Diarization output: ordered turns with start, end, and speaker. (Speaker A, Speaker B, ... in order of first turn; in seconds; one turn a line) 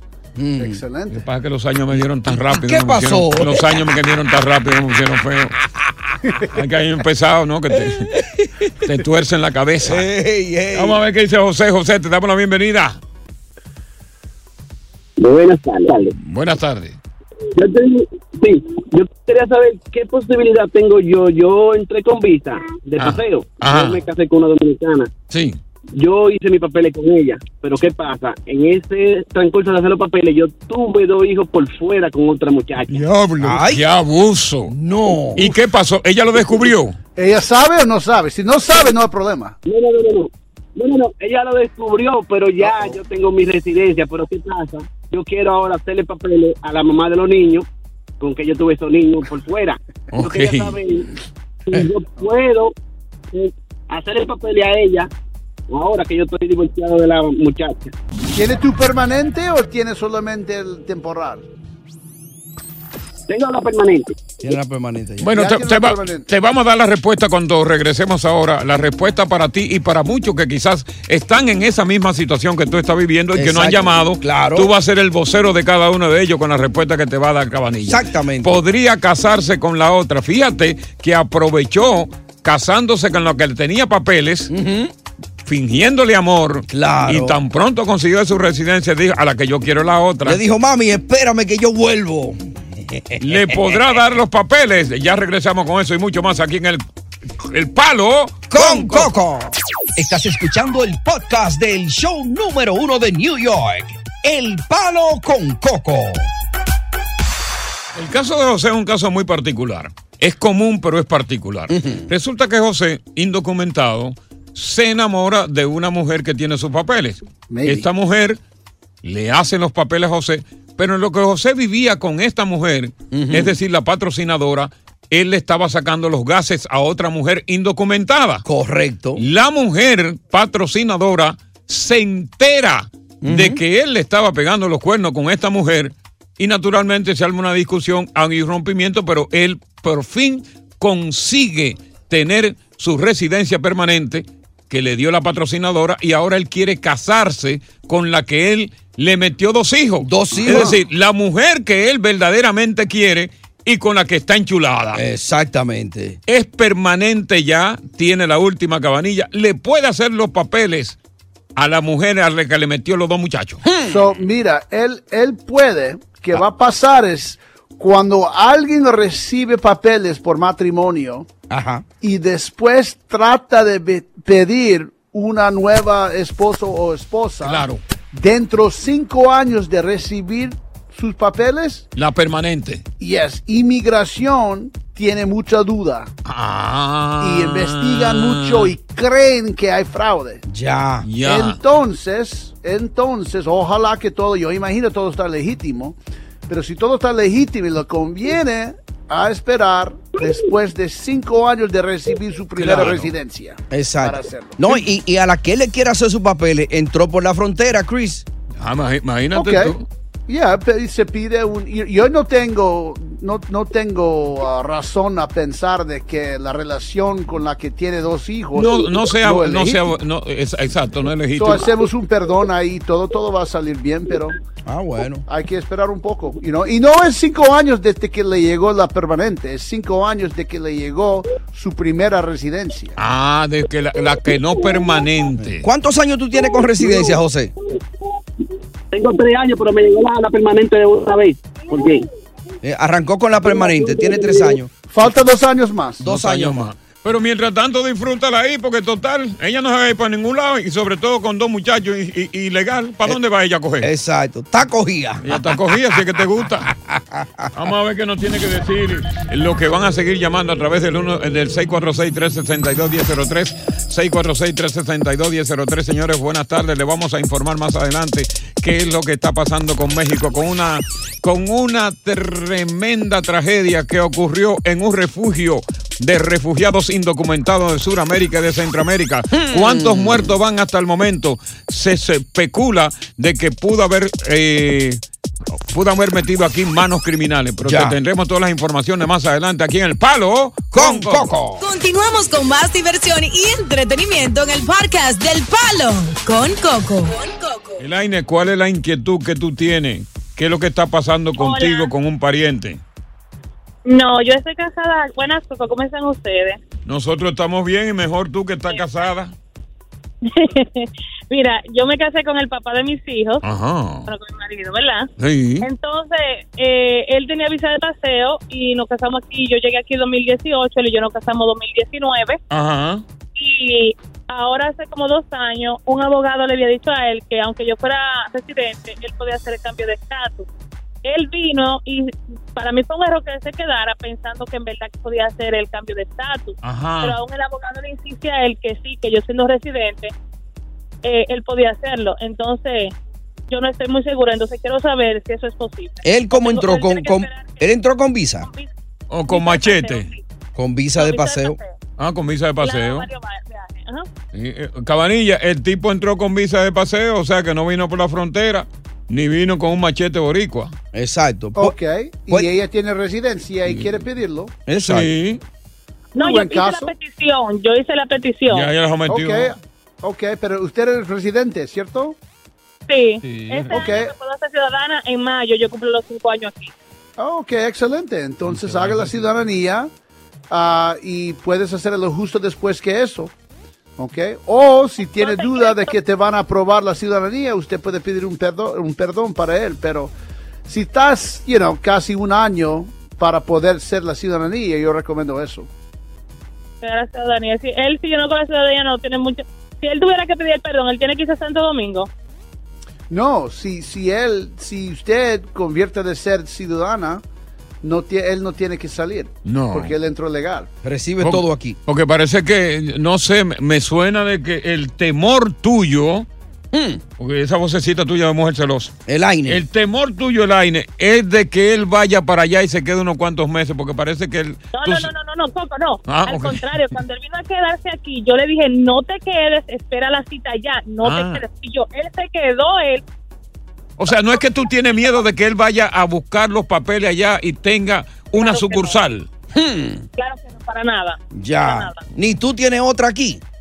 Speaker A: 0.4-0.8
Speaker B: 0.6-1.2
Speaker C: 1.1-5.5
Speaker A: 2.3-3.9
Speaker C: 6.5-8.1
Speaker A: 7.8-8.7
Speaker C: 8.8-10.1
Speaker A: 9.8-11.0
Speaker C: 10.7-13.0
Speaker D: 15.2-16.1
Speaker C: 16.2-17.0
Speaker D: 17.6-25.1
Speaker C: 23.0-24.0
Speaker C: 25.3-25.6
Speaker D: 25.9-33.1
Speaker C: 32.9-34.7
Speaker A: 33.4-33.8
Speaker A: 34.7-35.5
Speaker C: 35.4-37.0
Speaker B: 37.2-39.6
Speaker D: 39.6-47.7
Speaker D: 48.2-51.1
Speaker C: 50.1-50.8
Speaker D: 51.7-52.7
Speaker D: 53.3-55.1
Speaker D: 55.7-57.9
Speaker B: 58.3-61.5
Speaker D: 63.3-64.2
Speaker A: 64.4-65.3
Speaker C: 65.2-84.5
Speaker B: 65.3-66.3
Speaker A: 73.3-74.7
Speaker A: 77.8-78.6
Speaker A: 84.5-84.9
Speaker C: 85.5-90.4
Speaker A: 86.7-87.4
Speaker A: 90.2-93.8
Speaker C: 93.2-96.8
Speaker C: 97.4-99.1
Speaker A: 98.5-106.3
Speaker C: 108.0-118.4
Speaker A: 111.7-112.1
Speaker B: 117.5-117.9
Speaker C: 119.0-128.4
Speaker A: 123.1-123.6
Speaker A: 128.4-129.2
Speaker C: 129.2-155.0
Speaker A: 133.2-133.6
Speaker A: 150.0-150.8
Speaker A: 154.9-156.2
Speaker C: 156.3-161.0
Speaker C: 161.6-163.6
Speaker A: 163.6-164.1
Speaker B: 163.9-171.3
Speaker A: 171.5-171.8
Speaker B: 172.0-181.9
Speaker C: 177.4-177.8
Speaker C: 182.0-182.8
Speaker B: 183.0-186.1
Speaker C: 186.2-188.7
Speaker B: 187.2-190.4
Speaker A: 190.5-191.1
Speaker C: 191.0-191.6
Speaker B: 191.2-204.8
Speaker C: 202.6-203.1
Speaker A: 203.7-208.2
Speaker C: 208.6-209.9
Speaker B: 209.3-209.7
Speaker B: 210.3-219.8
Speaker C: 218.6-221.7
Speaker B: 221.4-224.4
Speaker A: 224.7-225.2
Speaker B: 225.3-233.0
Speaker C: 233.0-235.7
Speaker A: 235.6-237.5
Speaker D: 236.8-237.2
Speaker D: 238.9-242.1
Speaker A: 242.6-244.7
Speaker D: 243.4-244.6
Speaker B: 244.9-246.0
Speaker A: 246.0-246.7
Speaker C: 246.1-253.9
Speaker A: 253.8-255.8
Speaker C: 255.2-256.7
Speaker A: 256.6-257.5
Speaker C: 257.5-285.0
Speaker A: 279.3-280.4
Speaker C: 285.7-291.3
Speaker A: 287.6-288.0
Speaker A: 290.7-291.6
Speaker E: 291.6-297.8
Speaker C: 297.8-302.8
Speaker F: 301.4-301.9
Speaker F: 303.9-306.6
Speaker C: 306.9-309.3
Speaker F: 310.2-313.4
Speaker C: 313.4-314.1
Speaker F: 314.1-315.1
Speaker C: 315.2-315.7
Speaker F: 315.6-322.4
Speaker C: 322.5-323.0
Speaker F: 323.4-330.5
Speaker F: 331.0-340.1
Speaker C: 336.6-337.2
Speaker F: 341.0-342.9
Speaker F: 343.5-347.6
Speaker A: 346.0-348.5
Speaker F: 348.4-348.7
Speaker C: 349.1-350.1
Speaker F: 349.3-350.2
Speaker A: 350.6-351.6
Speaker F: 351.0-351.7
Speaker C: 352.0-353.1
Speaker F: 352.6-354.1
Speaker C: 354.3-360.7
Speaker A: 360.9-361.8
Speaker B: 361.6-364.6
Speaker C: 363.7-364.0
Speaker A: 364.7-365.1
Speaker C: 364.8-365.4
Speaker F: 366.1-368.7
Speaker B: 366.2-366.9
Speaker C: 368.5-369.5
Speaker B: 369.1-372.2
Speaker F: 372.9-376.7
Speaker C: 373.2-373.9
Speaker B: 373.7-374.1
Speaker B: 377.2-379.9
Speaker C: 378.5-379.3
Speaker B: 380.5-383.3
Speaker B: 384.0-390.1
Speaker F: 385.2-385.9
Speaker B: 390.7-395.7
Speaker F: 396.8-402.1
Speaker B: 403.1-407.2
Speaker B: 407.8-410.7
Speaker C: 409.4-409.9
Speaker A: 410.8-411.8
Speaker C: 411.2-416.3
Speaker A: 416.7-417.0
Speaker C: 417.2-418.9
Speaker A: 419.1-419.6
Speaker C: 419.5-425.1
Speaker F: 424.7-433.0
Speaker C: 426.1-426.9
Speaker C: 431.0-431.4
Speaker C: 434.0-439.3
Speaker F: 434.9-435.2
Speaker F: 438.4-439.0
Speaker A: 439.5-440.1
Speaker F: 440.2-442.0
Speaker A: 441.3-443.4